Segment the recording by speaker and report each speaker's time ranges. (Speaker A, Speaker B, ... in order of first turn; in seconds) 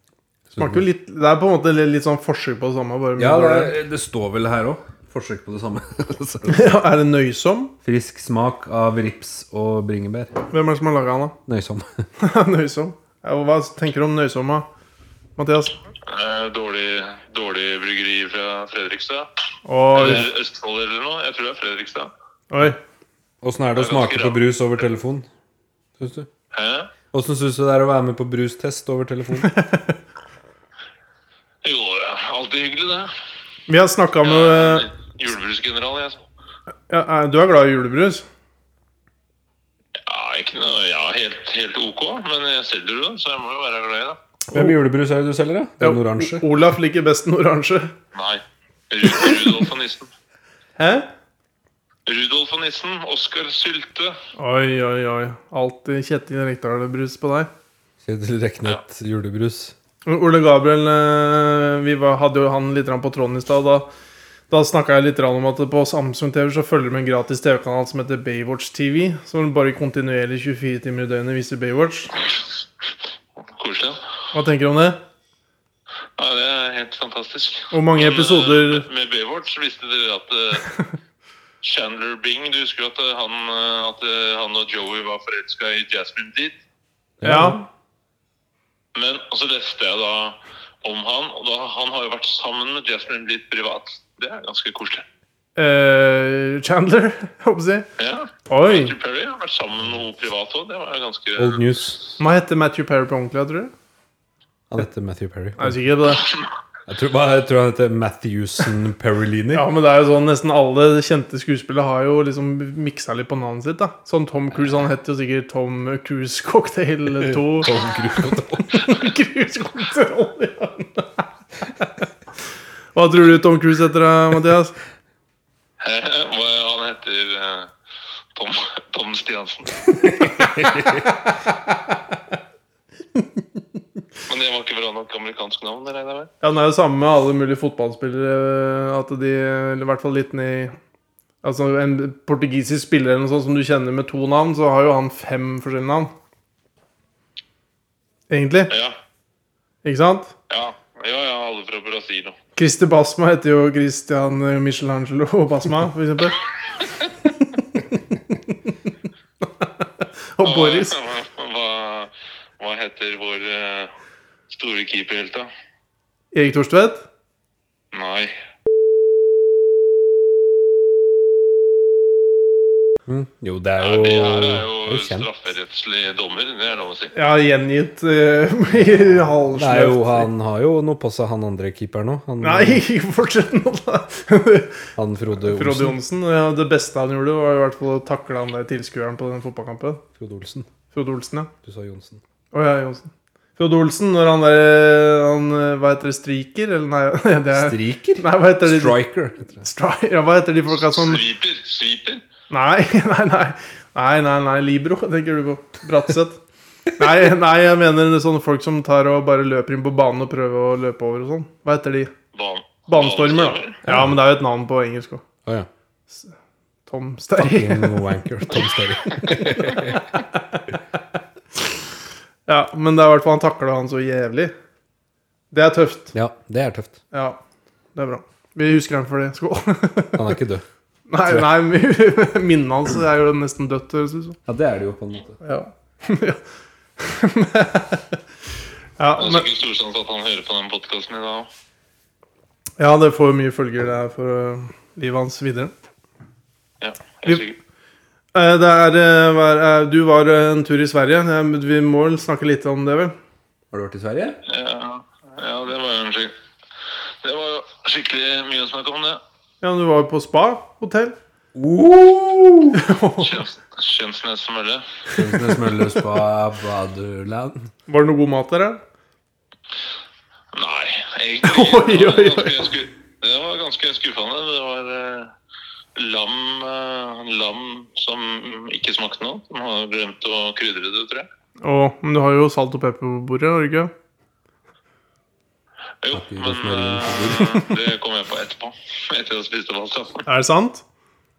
Speaker A: 0.5-0.9, 3.2-6.7, 7.8-10.4, 11.5-12.1, 23.4-25.3, 26.0-26.3, 27.1-29.6, 44.5-46.5, 58.0-59.8, 87.2-87.6, 101.4-102.0, 104.7-105.8, 106.9-109.6, 117.2-118.9, 130.3-131.1, 173.1-175.3, 179.5-182.8, 185.0-186.0, 190.2-190.7, 191.6-192.2, 197.5-199.7, 213.9-214.2, 217.4-220.2, 226.1-227.0, 230.2-230.6, 234.5-235.4, 253.7-254.4, 261.6-262.8, 265.1-267.7, 286.1-287.7
Speaker B: 0.6-3.7, 6.5-7.8, 10.5-11.4, 12.2-14.7, 15.4-15.8, 19.7-20.2, 22.5-22.8, 29.4-29.9, 33.7-34.9, 36.9-38.2, 45.8-47.9, 50.8-51.1, 54.4-57.5, 60.1-63.9, 64.5-72.1, 74.3-75.0, 77.7-78.9, 87.2-87.7, 95.6-97.9, 98.5-98.9, 102.2-103.7, 105.6-106.3, 109.5-121.3, 123.0-124.8, 136.4-140.8, 141.4-146.1, 148.3-148.7, 149.8-150.3, 152.6-156.4, 157.6-158.4, 159.6-161.0, 166.3-167.1, 177.1-180.3, 182.4-190.0, 190.9-191.5, 192.5-199.0, 199.6-201.2, 202.5-206.4, 207.0-212.1, 212.9-215.2, 216.9-218.0, 222.5-224.5, 225.5-226.1, 227.1-227.4, 228.0-230.4, 231.1-234.4, 235.4-236.4, 237.0-238.2, 239.0-239.5, 242.8-245.7, 248.3-253.2, 259.6-261.2, 262.7-263.4, 267.9-268.8, 271.4-272.7, 281.6-283.9, 290.3-290.8
Speaker C: 16.0-19.3, 19.9-22.1, 23.8-24.4, 26.5-26.9, 31.6-33.1, 34.2-36.2, 40.0-44.2, 48.1-50.1, 52.1-54.2, 73.5-74.0, 76.2-80.7, 81.6-86.6, 89.0-95.1, 98.0-101.6, 125.8-127.7, 128.3-130.6, 134.3-136.3, 148.7-149.0, 150.5-152.4, 156.8-157.1, 160.4-163.9, 164.5-165.5, 167.9-168.3, 173.8-177.1, 200.7-202.2, 212.3-213.8, 239.2-241.5, 246.8-247.6, 254.4-256.3, 257.2-259.2, 263.2-264.9, 270.5-275.3, 276.0-281.3, 286.0-290.2